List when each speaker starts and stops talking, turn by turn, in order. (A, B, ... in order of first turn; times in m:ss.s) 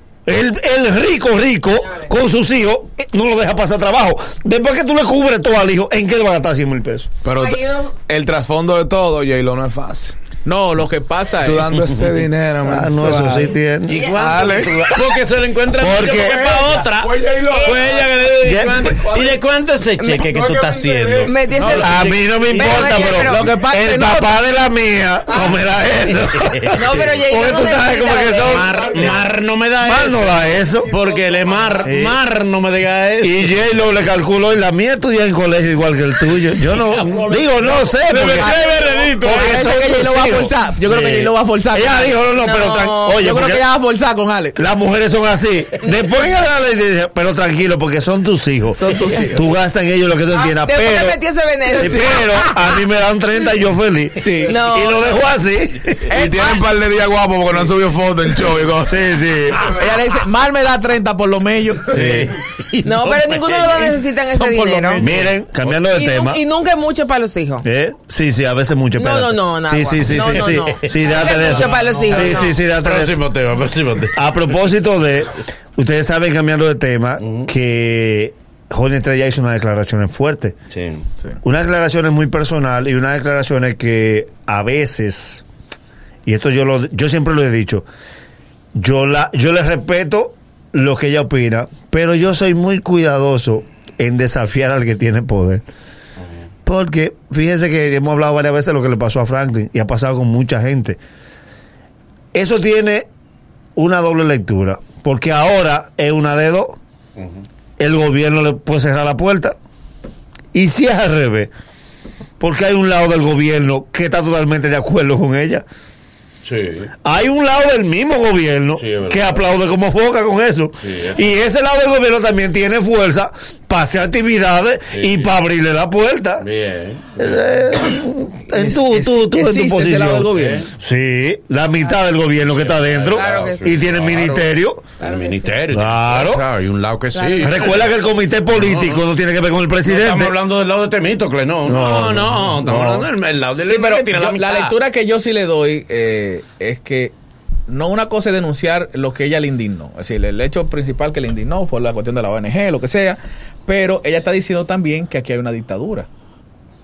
0:00.3-0:07.1 A
0:07.2-0:10.2 B
0:07.4-0:07.9 C
0:10.4-0:11.7 D
0:11.4-0:13.5 B
0:12.6-0:14.0 A
0:13.9-0:23.2 E
0:14.0-0:15.0 B
0:15.7-0:16.6 A
0:16.1-0:18.0 B
0:17.5-0:17.8 C
0:18.4-0:18.9 A
0:20.3-0:21.3 B
0:21.2-0:23.5 C
0:21.6-0:21.8 D
0:21.7-0:29.2 A
0:23.2-0:24.3 D
0:26.4-0:27.0 E
0:26.7-0:28.7 C
0:28.4-0:33.5 E
0:29.8-0:31.0 A
0:31.8-0:32.2 A
0:33.2-0:38.6 A
0:36.6-0:39.6 E
0:38.4-0:42.2 D
0:39.2-0:43.6 A
0:42.4-0:43.2 C
0:43.2-0:44.6 D
0:44.6-0:51.2 A
0:48.8-0:49.4 D
0:50.3-0:52.5 C
0:51.7-0:52.1 D
0:51.7-0:56.1 A
0:54.2-0:54.6 D
0:54.4-0:55.0 C
0:56.1-0:59.0 B
0:56.2-0:56.5 C
0:58.8-0:59.6 A
0:59.7-1:02.0 D
1:01.9-1:05.8 E
1:01.9-1:02.3 A
1:02.8-1:05.0 C
1:04.4-1:05.0 D
1:05.0-1:06.4 A
1:05.9-1:07.7 C
1:07.6-1:13.2 A
1:09.0-1:12.5 C
1:10.0-1:14.3 E
1:14.1-1:20.6 A
1:17.2-1:17.5 E
1:20.7-1:21.0 E
1:21.4-1:25.4 A
1:26.3-1:27.8 A
1:28.8-1:35.6 A
1:36.6-1:41.0 A
1:42.3-1:43.1 A
1:43.8-1:46.8 A
1:47.2-1:47.4 E
1:47.8-1:49.6 A
1:50.5-1:51.5 A
1:52.4-1:55.6 A
1:56.4-1:56.9 E
1:57.0-2:06.5 A
1:58.8-1:59.4 E
2:00.8-2:01.2 E
2:04.9-2:05.3 E
2:06.4-2:07.2 E
2:07.2-2:14.9 A
2:08.5-2:10.7 D
2:10.4-2:10.7 E
2:12.5-2:17.9 E
2:13.1-2:13.8 C
2:15.0-2:15.6 C
2:15.7-2:16.4 A
2:17.2-2:17.6 C
2:17.4-2:20.4 A
2:18.5-2:19.0 E
2:19.8-2:24.8 E
2:21.6-2:23.1 A
2:23.6-2:27.1 D
2:27.7-2:36.1 D